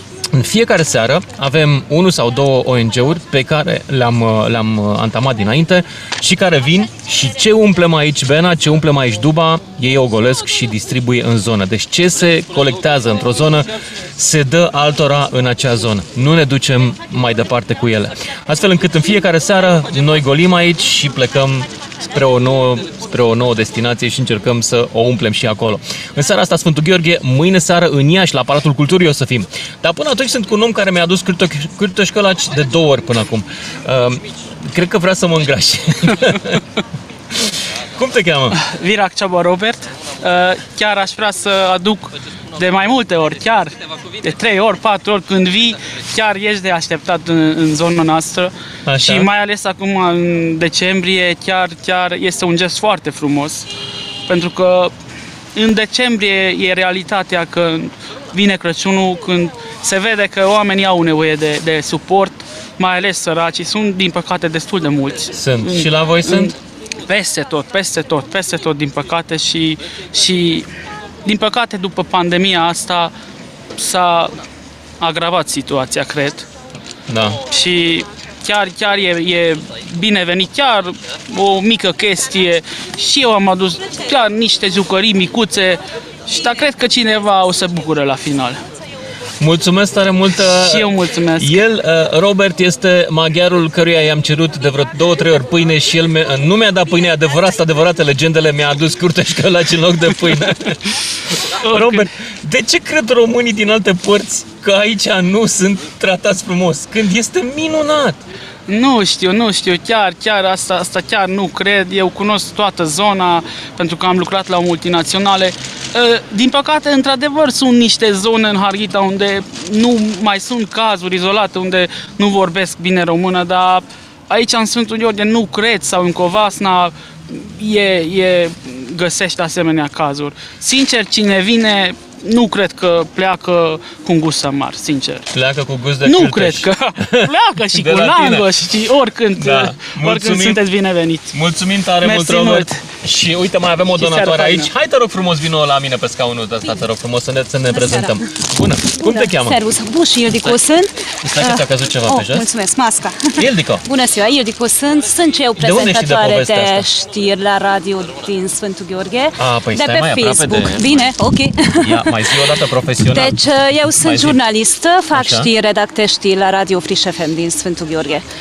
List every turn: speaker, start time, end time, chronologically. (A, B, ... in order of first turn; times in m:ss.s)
0:00.3-0:36.6 A
0:38.0-0:38.6 A
0:38.6-0:53.7 B
0:48.9-0:49.3 A
0:54.3-0:54.9 B
0:55.6-1:06.5 B
1:05.3-1:06.5 A
1:07.1-1:10.7 B
1:11.2-1:13.1 B
1:13.8-1:14.4 B
1:15.0-1:16.5 B
1:17.1-1:17.4 A
1:17.5-1:28.6 B
1:29.4-1:40.8 A
1:30.4-1:31.6 B
1:41.6-1:42.1 B
1:41.7-1:48.2 A
1:48.7-2:15.3 B
2:15.3-2:18.5 A
2:16.0-2:21.3 B
2:19.4-2:20.6 A
2:21.3-2:29.6 A
2:22.0-2:22.8 B
2:23.9-2:24.7 B
2:27.7-2:28.2 C
2:29.0-2:33.3 C
2:31.2-2:32.5 A
2:33.4-2:33.9 A
2:33.8-2:42.1 C
2:35.6-2:36.9 A
2:39.4-2:41.1 A
2:41.8-2:44.4 A
2:43.1-2:48.2 C
2:45.1-2:45.5 A